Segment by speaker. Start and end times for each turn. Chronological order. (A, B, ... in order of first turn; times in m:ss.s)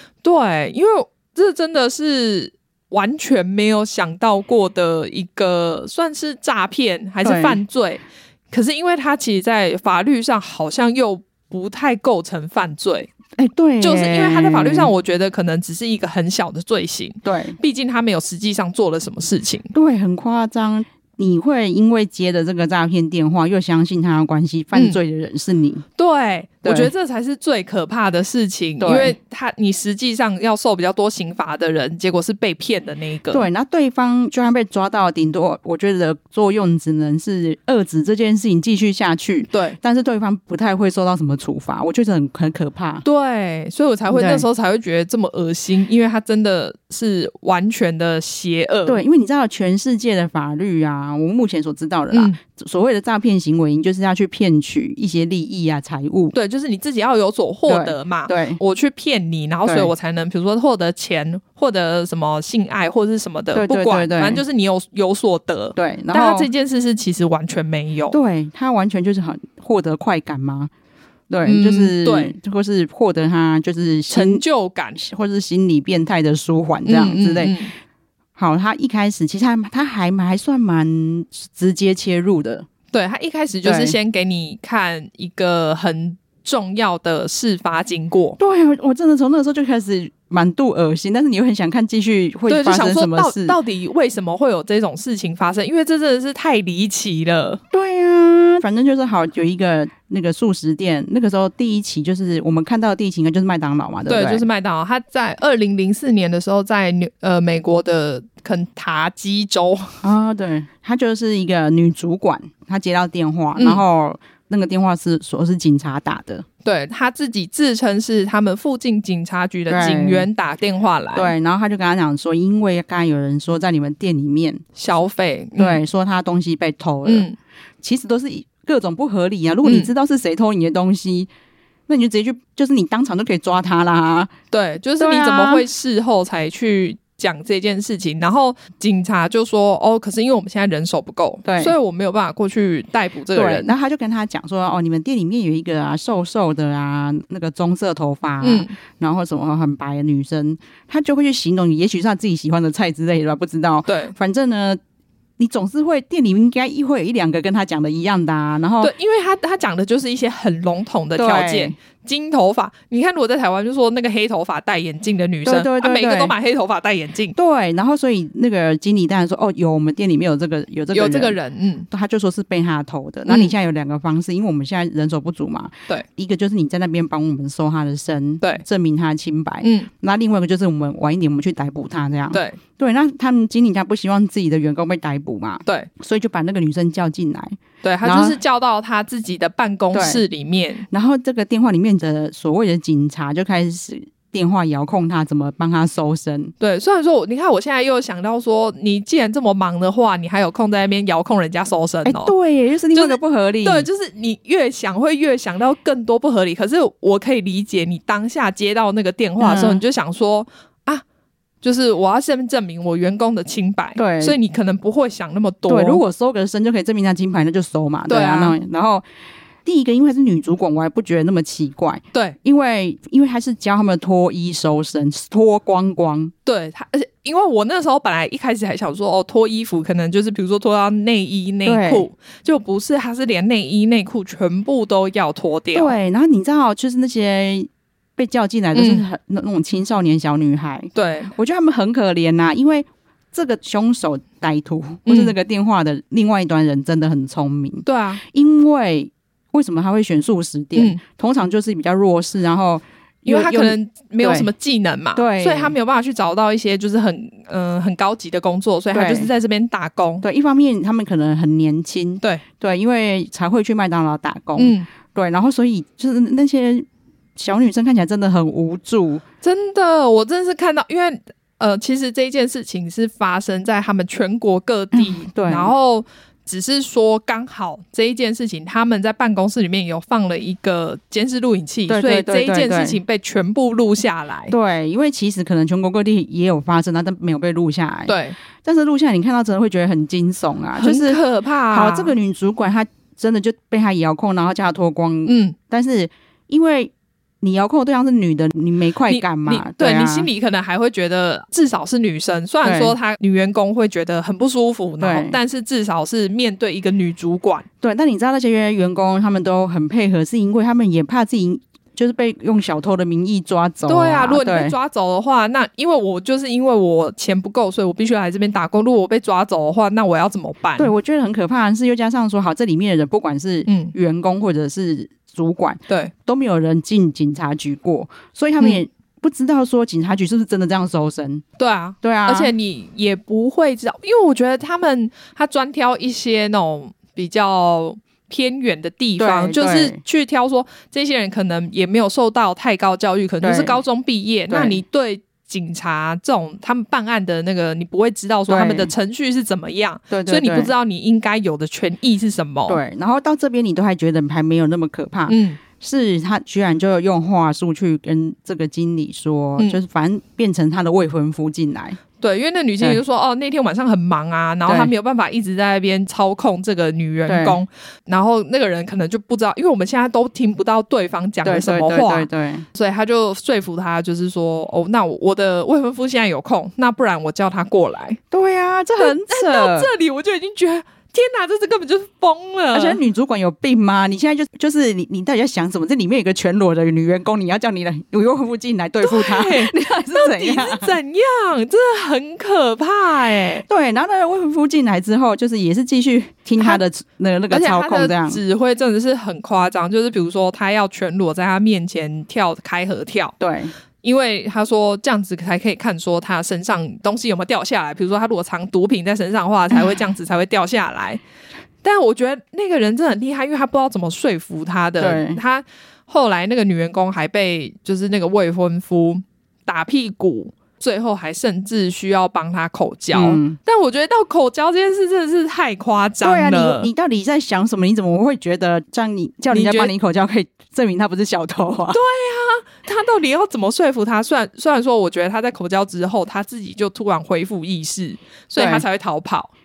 0:00.2-0:13.1 A
0:07.2-0:07.6 B
0:13.4-0:14.9 B
0:13.8-0:19.7 A
0:17.2-0:17.6 B
0:19.7-0:25.8 B
0:24.7-0:25.0 A
0:26.0-0:33.4 A
0:26.6-0:26.9 B
0:28.8-0:29.1 B
0:33.3-0:43.0 B
0:39.5-0:39.8 A
0:43.0-0:49.0 A
0:44.1-0:44.4 B
0:48.8-0:56.3 B
0:52.1-0:52.4 A
0:56.3-1:08.2 A
0:57.7-0:58.6 B
0:59.6-0:59.9 B
1:03.5-1:04.4 B
1:05.8-1:06.5 B
1:08.1-1:10.7 B
1:11.3-1:14.4 B
1:11.4-1:12.3 A
1:14.1-1:15.0 A
1:15.0-1:17.5 B
1:16.8-1:17.7 A
1:18.4-1:22.7 B
1:22.9-1:28.4 A
1:23.6-1:24.0 B
1:28.4-1:33.6 B
1:32.5-1:37.6 A
1:37.7-1:44.4 B
1:44.1-1:50.0 A
1:50.0-1:56.4 B
1:53.5-1:53.8 A
1:56.6-2:01.3 A
1:59.7-2:00.3 B
2:01.1-2:04.6 B
2:04.8-2:05.8 A
2:05.6-2:07.2 B
2:07.0-2:07.4 A
2:07.8-2:11.3 B
2:09.6-2:09.9 A
2:11.9-2:14.3 B
2:14.5-2:23.7 A
2:15.0-2:15.6 B
2:21.4-2:21.7 B
2:23.3-2:34.8 B
2:28.4-2:28.7 A
2:33.9-2:34.1 A
2:35.4-2:38.9 B
2:38.8-2:47.3 A
2:41.2-2:41.8 B
2:45.4-2:46.3 B
2:47.3-2:51.4 B
2:50.9-2:51.9 A
2:51.9-3:08.4 B
2:53.3-2:53.5 A
2:59.6-2:59.9 A
3:02.3-3:02.6 A
3:07.8-3:10.8 A
3:09.9-3:10.2 B
3:10.9-3:16.5 B
3:16.6-3:22.3 A
3:22.0-3:23.9 B
3:22.9-3:31.0 A
3:29.4-3:29.8 B
3:31.6-3:36.0 A
3:34.0-3:34.4 B
3:35.7-3:39.0 B
3:38.1-3:38.6 A
3:39.6-3:46.3 B
3:46.4-3:55.9 A
3:51.6-3:52.0 B
3:55.7-4:14.5 B
3:58.7-3:59.0 A
4:00.9-4:01.3 A
4:05.1-4:05.3 A
4:07.8-4:08.2 A
4:13.2-4:20.2 A
4:15.1-4:15.7 B
4:18.9-4:19.3 B
4:20.2-4:29.2 B
4:24.6-4:24.9 A
4:29.4-4:44.5 A
4:34.9-4:35.7 B
4:41.9-4:43.0 B
4:44.5-5:00.3 B
4:48.1-4:48.4 A
4:50.8-4:52.1 A
4:55.2-4:55.5 A
4:59.1-5:07.6 A
5:02.6-5:02.9 B
5:05.0-5:05.4 B
5:07.8-5:14.7 B
5:13.9-5:20.9 A
5:20.8-5:31.4 B
5:23.6-5:23.9 A
5:31.6-5:52.8 A
5:32.0-5:32.5 B
5:39.2-5:40.0 B
5:43.4-5:43.8 B
5:44.5-5:44.8 B
5:48.5-5:48.9 B
5:50.1-5:50.7 B
5:52.7-6:02.0 B
5:55.3-5:55.6 A
6:02.2-6:18.2 A
6:04.6-6:04.9 B
6:07.3-6:07.6 B
6:11.4-6:12.6 B
6:18.3-6:19.9 B
6:19.0-6:23.0 A
6:22.7-6:30.9 B
6:29.0-6:33.6 A
6:33.7-6:38.4 B
6:37.5-6:43.3 A
6:43.4-6:43.7 B
6:44.0-6:51.2 A
6:51.8-7:06.9 A
6:55.0-6:55.4 B
7:03.1-7:03.6 B
7:06.2-7:12.0 B
7:09.5-7:09.9 A
7:11.9-7:19.5 A
7:18.6-7:18.8 B